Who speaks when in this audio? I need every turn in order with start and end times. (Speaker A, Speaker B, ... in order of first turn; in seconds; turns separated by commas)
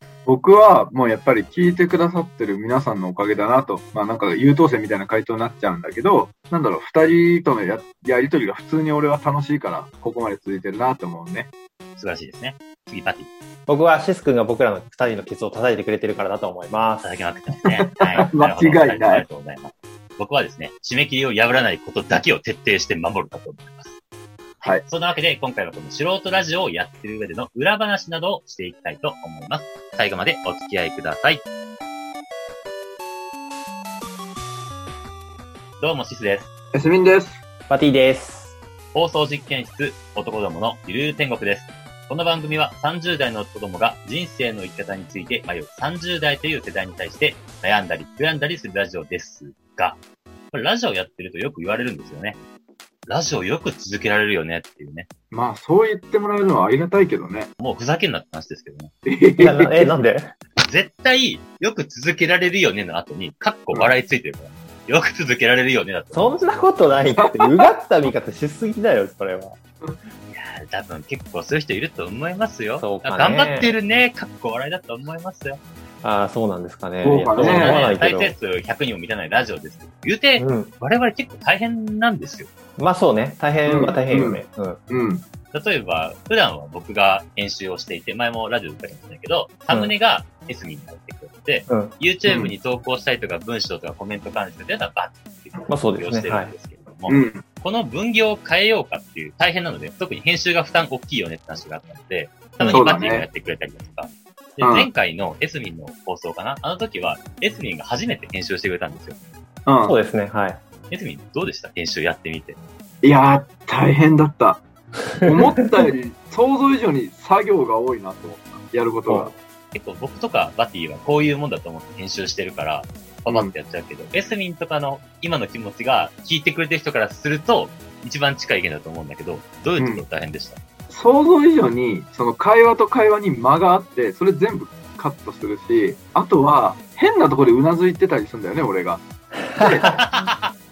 Speaker A: 0.3-11.5, Speaker B: 12.0-13.3, Speaker C: 13.7-17.2, Speaker B: 17.0-24.0, Speaker A: 17.6-19.3, Speaker B: 24.6-31.4, Speaker B: 35.8-36.5, Speaker A: 36.7-37.4, Speaker C: 37.7-38.6, Speaker B: 38.9-50.0, Speaker B: 50.5-52.4, Speaker B: 53.1-55.1, Speaker A: 55.3-57.5, Speaker B: 57.6-58.9, Speaker A: 59.1-60.0, Speaker C: 59.4-60.3, Speaker B: 60.6-67.1, Speaker C: 66.1-69.6, Speaker A: 67.2-67.7, Speaker B: 70.3-75.6, Speaker C: 72.8-73.7, Speaker C: 76.0-78.4, Speaker A: 77.0-77.8, Speaker B: 77.4-82.5, Speaker C: 80.4-80.7, Speaker C: 82.8-84.8, Speaker A: 83.7-85.2, Speaker B: 85.5-109.2, Speaker C: 91.7-92.0, Speaker A: 92.3-92.5, Speaker C: 95.7-96.5, Speaker A: 97.1-97.4, Speaker C: 102.6-102.9, Speaker A: 102.7-103.3, Speaker A: 104.6-104.9, Speaker A: 109.7-110.0, Speaker C: 109.8-110.6, Speaker B: 110.9-112.6, Speaker A: 113.0-114.6, Speaker A: 115.2-119.3, Speaker C: 119.1-119.3, Speaker B: 119.7-130.6, Speaker A: 123.3-123.5, Speaker A: 129.8-130.0, Speaker A: 130.9-139.0, Speaker C: 139.5-140.0, Speaker A: 139.6-139.9, Speaker B: 139.8-140.5